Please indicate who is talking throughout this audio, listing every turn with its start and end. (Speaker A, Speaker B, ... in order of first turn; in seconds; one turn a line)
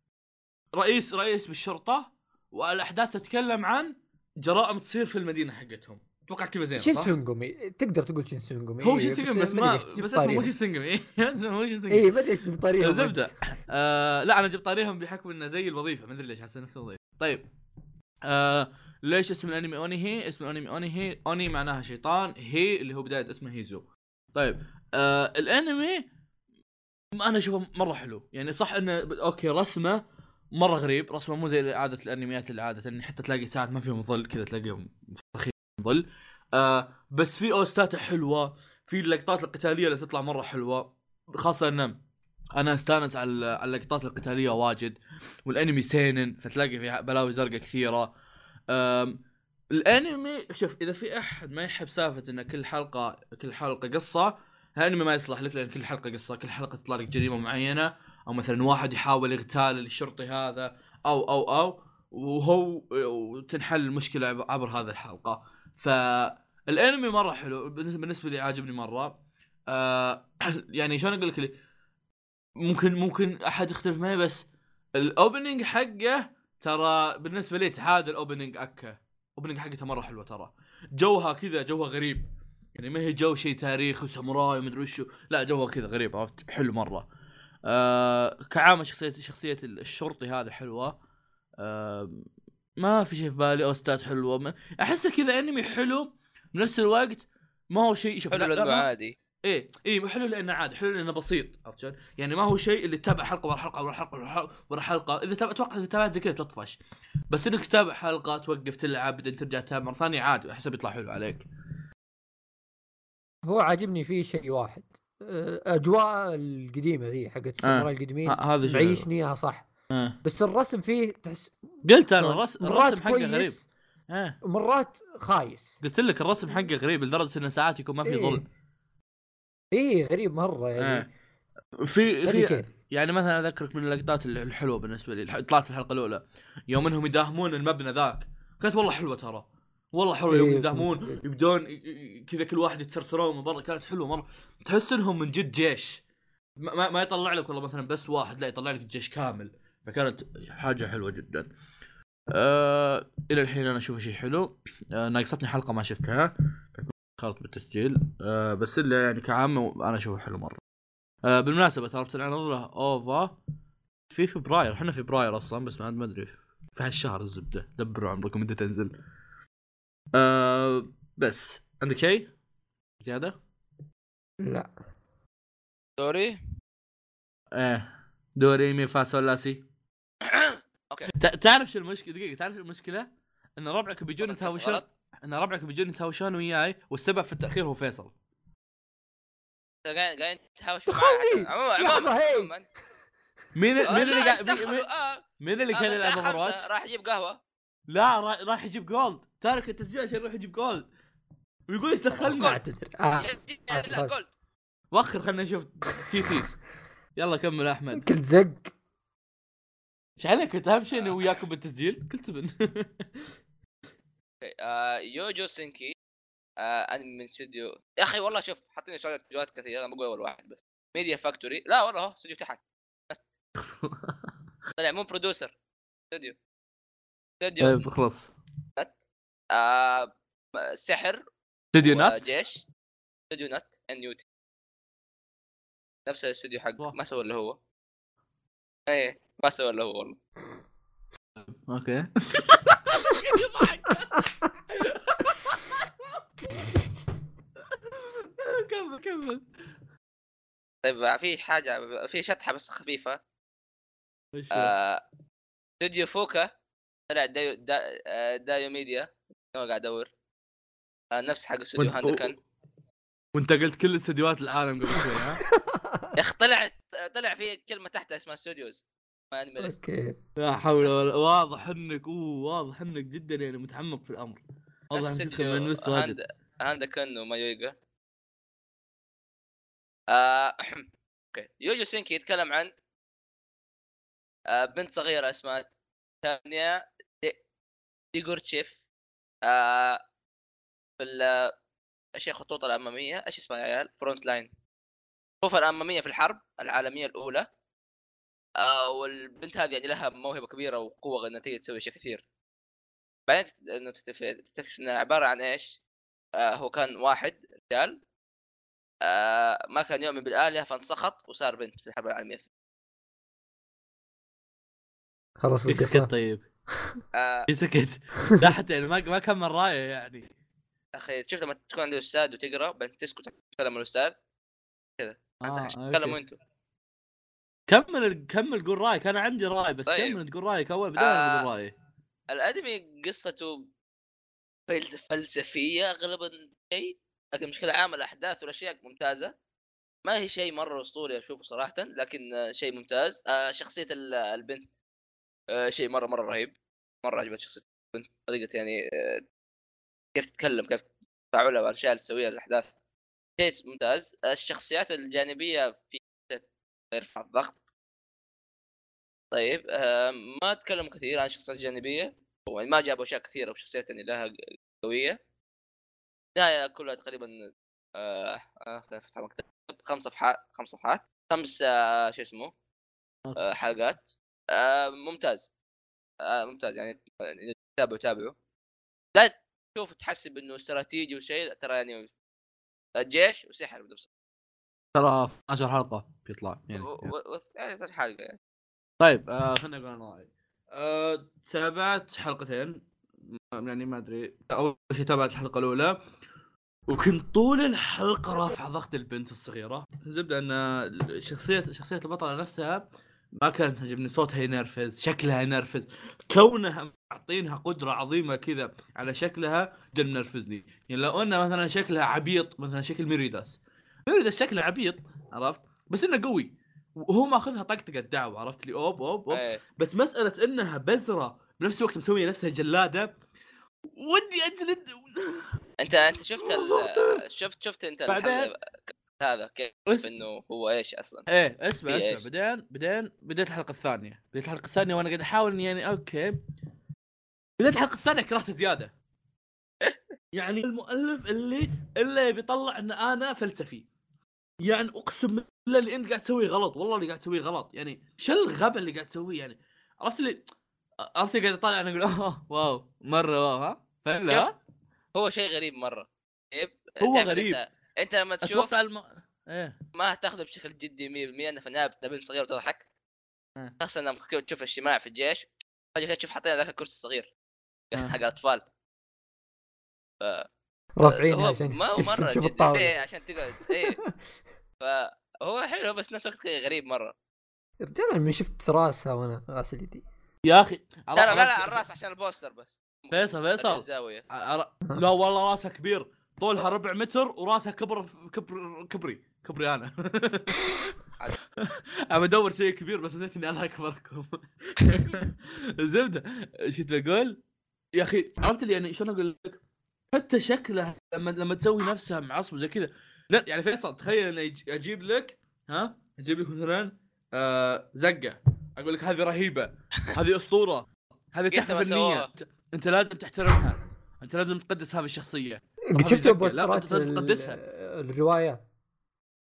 Speaker A: 0.8-7.1
Speaker B: 6.8-10.5
Speaker A: 8.8-12.1
Speaker B: 11.9-13.3
Speaker A: 12.8-17.4
Speaker A: 18.3-26.1
Speaker A: 27.1-30.0
Speaker A: 30.6-42.0
Speaker A: 42.6-48.1
Speaker A: 48.7-49.2
Speaker A: 49.7-69.2
Speaker A: 69.7-71.5
Speaker A: 72.6-82.2
Speaker A: 82.8-87.1
Speaker A: 87.7-91.0
Speaker A: 91.6-92.2
Speaker A: 92.8-98.9
Speaker C: 98.3-99.1
Speaker A: 99.5-106.8
Speaker A: 107.3-111.5
Speaker B: 113.5-119.7
Speaker A: 117.6-119.1
Speaker A: 119.9-120.2
Speaker B: 120.2-123.7
Speaker A: 121.8-124.4
Speaker B: 124.4-125.8
Speaker A: 125.8-128.5
Speaker B: 128.1-128.4
Speaker B: 129.7-131.1
Speaker A: 130.8-131.1
Speaker A: 131.8-146.0
Speaker B: 132.2-132.7
Speaker B: 140.3-141.2
Speaker A: 146.6-151.5
Speaker A: 152.3-160.6
Speaker A: 161.2-163.3
Speaker A: 164.1-168.9
Speaker A: 170.1-172.3
Speaker A: 173.0-173.4
Speaker B: 174.4-174.7
Speaker C: 176.0-176.4
Speaker A: 177.6-177.9
Speaker A: 178.4-179.6
Speaker C: 180.2-181.1
Speaker A: 181.1-188.1
Speaker C: 184.2-184.8
Speaker C: 189.9-192.6
Speaker B: 190.9-192.5
Speaker A: 193.6-194.9
Speaker C: 193.8-197.4
Speaker A: 195.4-196.6
Speaker A: 197.9-200.8
Speaker A: 201.7-202.6
Speaker B: 202.1-204.1
Speaker C: 202.3-202.6
Speaker C: 203.2-204.3
Speaker A: 204.9-206.5
Speaker A: 207.2-208.1
Speaker B: 208.0-208.7
Speaker A: 210.2-213.2
Speaker C: 211.0-211.3
Speaker C: 214.4-215.9
Speaker C: 216.6-223.2
Speaker A: 223.6-224.3
Speaker C: 224.8-225.5
Speaker C: 227.4-227.8
Speaker A: 227.6-228.3
Speaker C: 229.5-231.2
Speaker A: 231.7-232.2
Speaker C: 231.8-232.7
Speaker C: 233.3-234.2
Speaker C: 236.1-237.6
Speaker C: 238.9-240.2
Speaker A: 241.4-245.9
Speaker A: 247.8-249.5
Speaker C: 250.8-253.2
Speaker A: 254.3-254.7
Speaker C: 254.5-255.0
Speaker C: 255.8-256.5
Speaker C: 257.1-260.1
Speaker C: 261.1-262.4
Speaker A: 261.8-262.3
Speaker A: 263.4-265.4
Speaker B: 264.9-266.2
Speaker C: 266.2-269.8
Speaker B: 269.6-270.2
Speaker A: 270.4-276.2
Speaker C: 270.8-271.1
Speaker C: 274.9-277.7
Speaker C: 280.1-282.7
Speaker C: 284.5-285.7
Speaker C: 286.2-287.4
Speaker C: 288.1-288.7
Speaker C: 289.4-290.0
Speaker C: 291.0-291.5
Speaker C: 292.2-294.5
Speaker C: 295.4-297.5
Speaker C: 298.6-302.2
Speaker C: 303.3-305.8
Speaker C: 306.4-308.0
Speaker C: 309.0-312.5
Speaker B: 315.4-316.1
Speaker A: 315.7-316.4
Speaker C: 317.1-317.5
Speaker A: 317.5-320.3
Speaker C: 320.9-324.1
Speaker C: 325.0-326.4
Speaker A: 325.4-326.2
Speaker A: 327.7-331.7
Speaker C: 329.9-330.2
Speaker C: 331.0-331.5
Speaker C: 332.3-333.6
Speaker C: 334.7-339.3
Speaker C: 340.1-344.7
Speaker C: 345.5-346.5
Speaker C: 347.0-349.2
Speaker C: 350.2-352.7
Speaker C: 353.4-357.6
Speaker C: 359.3-365.2
Speaker C: 366.4-367.4
Speaker C: 368.0-372.5
Speaker C: 373.4-375.5
Speaker C: 376.2-378.3
Speaker C: 379.1-382.1
Speaker C: 383.0-384.1
Speaker A: 384.9-387.1
Speaker C: 386.8-388.4
Speaker A: 389.0-396.0
Speaker A: 396.9-402.8
Speaker A: 403.4-423.1
Speaker C: 419.3-419.6
Speaker A: 423.9-425.5
Speaker C: 425.8-428.6
Speaker A: 426.4-427.2
Speaker A: 428.1-428.5
Speaker C: 429.2-431.3
Speaker A: 431.3-436.4
Speaker C: 431.9-432.3
Speaker A: 437.6-438.9
Speaker A: 440.3-443.9
Speaker A: 444.6-450.4
Speaker A: 451.0-454.6
Speaker C: 455.1-458.7
Speaker A: 457.0-457.6
Speaker A: 458.4-459.8
Speaker C: 459.9-462.8
Speaker C: 463.8-467.3
Speaker C: 467.9-468.6
Speaker B: 471.0-472.9
Speaker C: 471.0-474.0
Speaker B: 473.6-474.1
Speaker C: 474.8-477.1
Speaker B: 477.8-480.0
Speaker A: 480.5-481.8
Speaker C: 481.1-484.2
Speaker A: 483.1-491.0
Speaker C: 491.2-491.5
Speaker A: 491.6-497.4
Speaker A: 497.9-499.6
Speaker A: 500.1-517.6
Speaker C: 511.5-512.3
Speaker B: 515.9-518.6